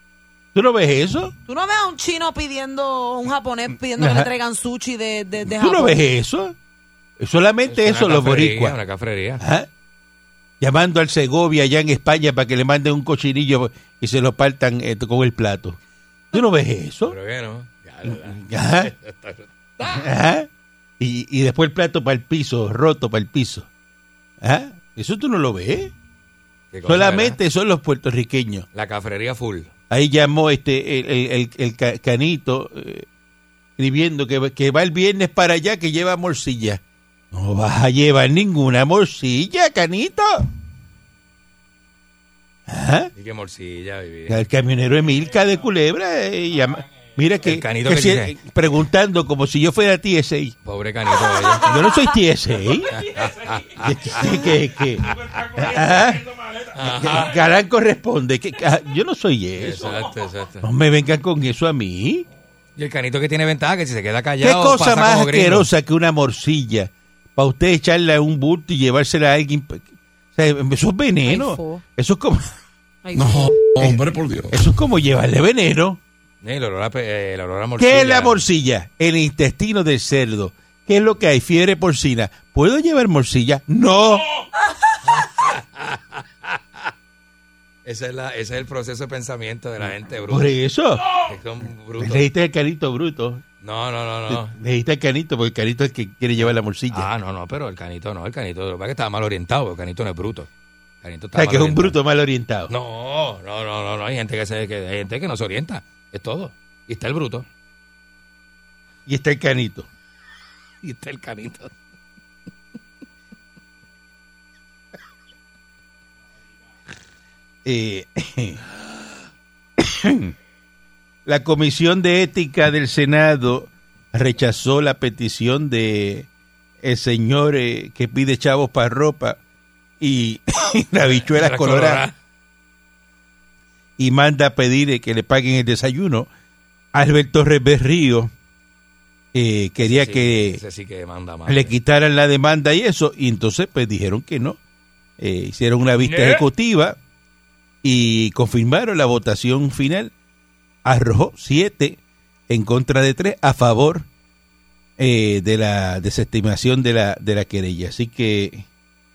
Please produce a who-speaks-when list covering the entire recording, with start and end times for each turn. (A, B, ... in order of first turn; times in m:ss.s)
0:00.5-0:01.3 A
0:01.5-0:06.0 B
0:04.0-0:04.3 A
0:05.5-0:06.6 A
0:07.2-0:08.8 A
0:07.7-0:09.4 C
0:09.4-0:09.7 A
0:10.6-0:15.8 A
0:16.3-0:17.2 A
0:17.1-0:19.5 C
0:18.0-0:18.9 A
0:19.8-0:20.5 A
0:21.0-0:23.7 A
0:24.4-0:25.9 A
0:26.7-0:27.4 C
0:26.8-0:28.7 A
0:28.7-0:29.7 C
0:29.9-0:33.1 A
0:33.8-0:36.8 A
0:37.3-0:40.5 A
0:42.7-0:43.1 A
0:43.2-0:44.4 C
0:44.3-0:50.5 A
0:47.4-0:48.3 C
0:50.6-0:51.7 C
0:51.4-0:52.2 B
0:51.6-0:52.9 A
0:52.9-0:54.5 C
0:53.8-1:00.0 A
0:56.7-0:57.4 C
0:59.6-1:00.7 C
1:00.6-1:02.3 A
1:02.8-1:05.7 C
1:04.4-1:09.8 A
1:10.4-1:12.5 A
1:11.2-1:11.8 B
1:13.0-1:13.6 B
1:13.8-1:16.0 A
1:16.4-1:18.4 C
1:17.8-1:24.3 A
1:25.0-1:26.8 C
1:27.9-1:30.6 C
1:30.3-1:31.2 A
1:31.1-1:32.2 C
1:32.0-1:33.4 A
1:33.6-1:34.6 C
1:34.3-1:37.1 A
1:36.4-1:40.5 C
1:41.0-1:42.0 C
1:41.3-1:42.7 A
1:42.7-1:47.4 C
1:49.1-1:49.9 A
1:50.8-1:51.7 C
1:57.6-1:58.6 A
1:59.8-2:00.3 A
2:01.3-2:06.3 A
2:06.8-2:09.4 A
2:10.0-2:12.0 A
2:11.3-2:12.1 C
2:14.0-2:16.3 A
2:16.9-2:18.3 A
2:19.3-2:20.6 A
2:19.8-2:21.7 C
2:21.5-2:24.6 A
2:25.2-2:27.0 A
2:26.0-2:26.5 C
2:27.8-2:30.1 A
2:30.8-2:34.1 A
2:35.0-2:38.7 A